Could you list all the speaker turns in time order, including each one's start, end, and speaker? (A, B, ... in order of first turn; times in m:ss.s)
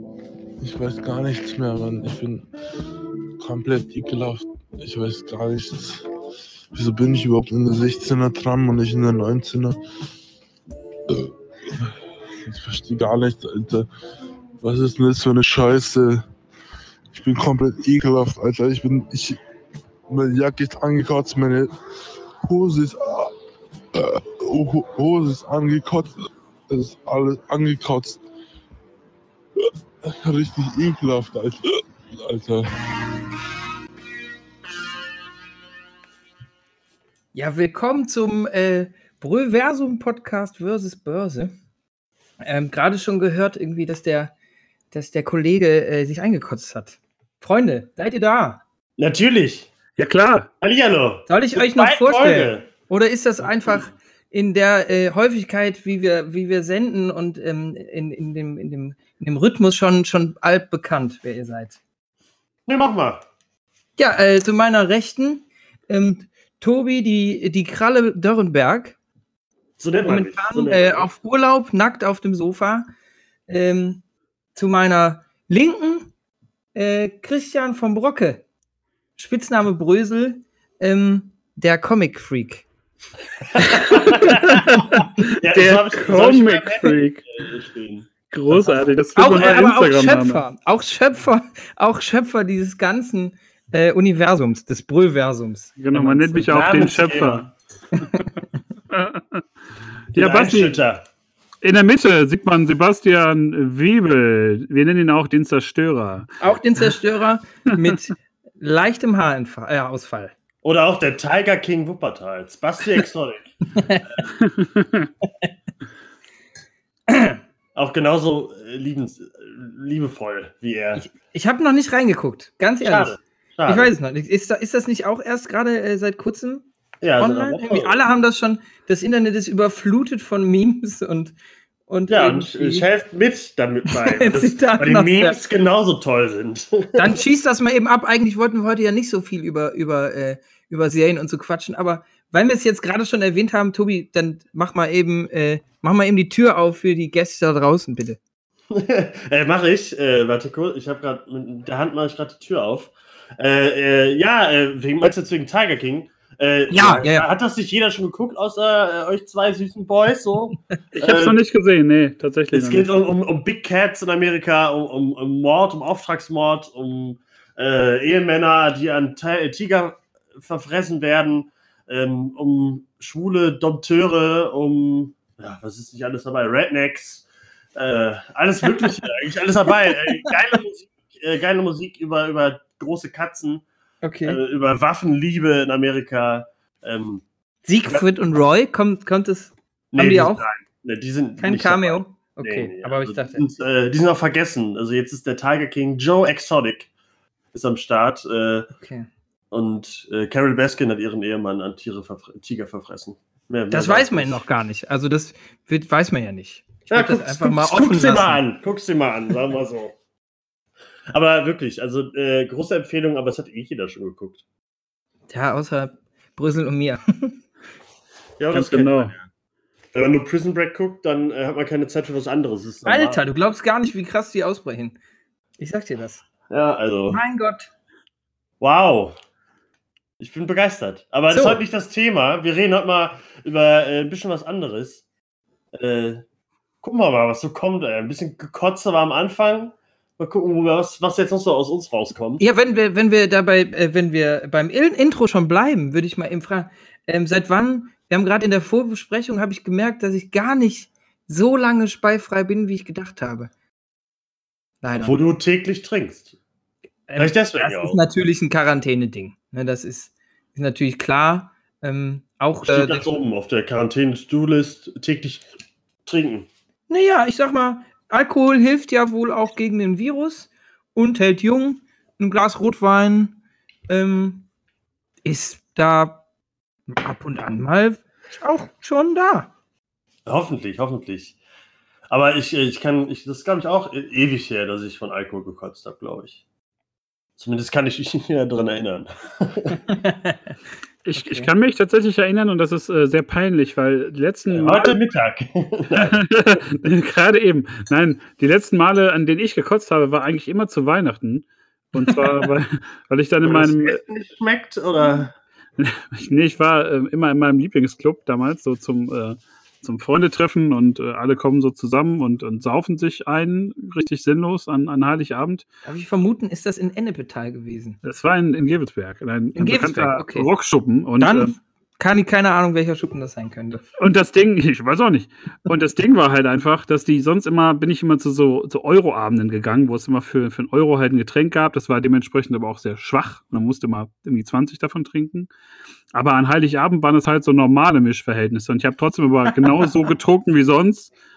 0:00.6-0:02.5 A
0:03.4-0:06.1 A
0:06.7-0:09.8 A
0:11.1-0:11.9 A
0:12.4-0:13.9 A
0:14.6-0:16.2 A
0:17.1-0:19.4 A
0:20.1-0:21.7 A
0:22.4-0:23.3 A
0:23.9-0:26.2 A
0:26.7-0:28.2 A
0:30.0-0:31.6 A
0:32.2-0:32.6 A
0:37.3-0:41.5 B
0:42.4-0:44.3 B
0:44.9-0:48.6 B
0:49.0-0:49.7 C
0:50.0-0:50.5 D
0:50.6-0:52.7 C
0:51.3-1:01.8 B
1:02.7-1:03.2 C
1:04.0-1:09.0 B
1:09.8-1:11.1 C
1:10.0-1:12.9 B
1:13.5-1:14.0 B
1:14.6-1:16.1 B
1:16.8-1:18.4 B
1:19.2-1:22.7 B
1:23.6-1:28.8 C
1:23.6-1:24.2 B
1:24.1-1:27.3 D
1:28.3-1:30.4 D
1:29.2-1:36.5 B
1:35.8-1:37.5 D
1:36.4-1:37.5 C
1:38.9-1:39.4 D
1:40.1-1:40.8 D
1:40.1-1:41.1 C
1:41.6-1:46.3 D
1:46.4-1:50.3 B
1:50.6-1:53.5 C
1:53.8-1:54.2 B
1:54.4-1:55.1 D
1:57.1-1:57.4 B
1:57.8-2:01.0 C
2:01.0-2:03.2 B
2:02.8-2:03.9 C
2:03.7-2:06.6 B
2:07.0-2:08.0 C
2:07.2-2:11.3 B
2:11.9-2:12.9 B
2:12.1-2:17.1 C
2:13.9-2:15.4 B
2:17.0-2:28.2 B
2:28.7-2:41.4 C
2:36.7-2:37.3 B
2:41.0-2:42.9 D
2:42.5-2:57.2 C
2:57.8-3:03.6 C
3:04.0-3:04.4 B
3:04.2-3:07.2 C
3:07.7-3:10.5 B
3:09.9-3:16.9 C
3:11.4-3:13.4 B
3:17.5-3:18.7 C
3:18.8-3:19.1 B
3:19.5-3:24.4 C
3:23.7-3:28.4 B
3:26.9-3:30.0 C
3:31.1-3:34.4 C
3:35.3-3:37.4 B
3:38.4-3:39.3 C
3:38.5-3:39.1 D
3:39.9-3:43.2 C
3:42.9-3:45.0 B
3:45.6-3:46.2 B
3:46.5-3:47.2 C
3:47.1-3:47.7 B
3:48.6-3:49.2 C
3:50.2-3:55.0 C
3:51.3-3:51.6 B
3:55.7-3:56.2 C
3:56.8-4:02.4 C
4:02.4-4:13.5 B
4:14.8-4:15.2 B
4:15.0-4:16.3 C
4:17.1-4:23.1 B
4:17.2-4:18.0 C
4:22.7-4:25.5 C
4:26.1-4:26.5 C
4:26.9-4:33.4 B
4:33.9-4:34.4 B
4:35.2-4:36.2 B
4:36.9-4:39.5 B
4:40.3-4:41.4 C
4:42.1-4:46.4 C
4:47.4-4:49.8 C
4:49.9-4:50.4 B
4:51.0-4:55.0 D
4:51.2-4:51.5 B
4:54.5-4:56.2 C
4:56.0-5:04.0 D
5:03.4-5:05.3 C
5:05.8-5:15.6 D
5:15.8-5:18.0 B
5:18.0-5:21.5 D
5:19.6-5:20.5 B
5:21.2-5:23.8 B
5:24.0-5:35.5 D
5:36.1-5:41.1 D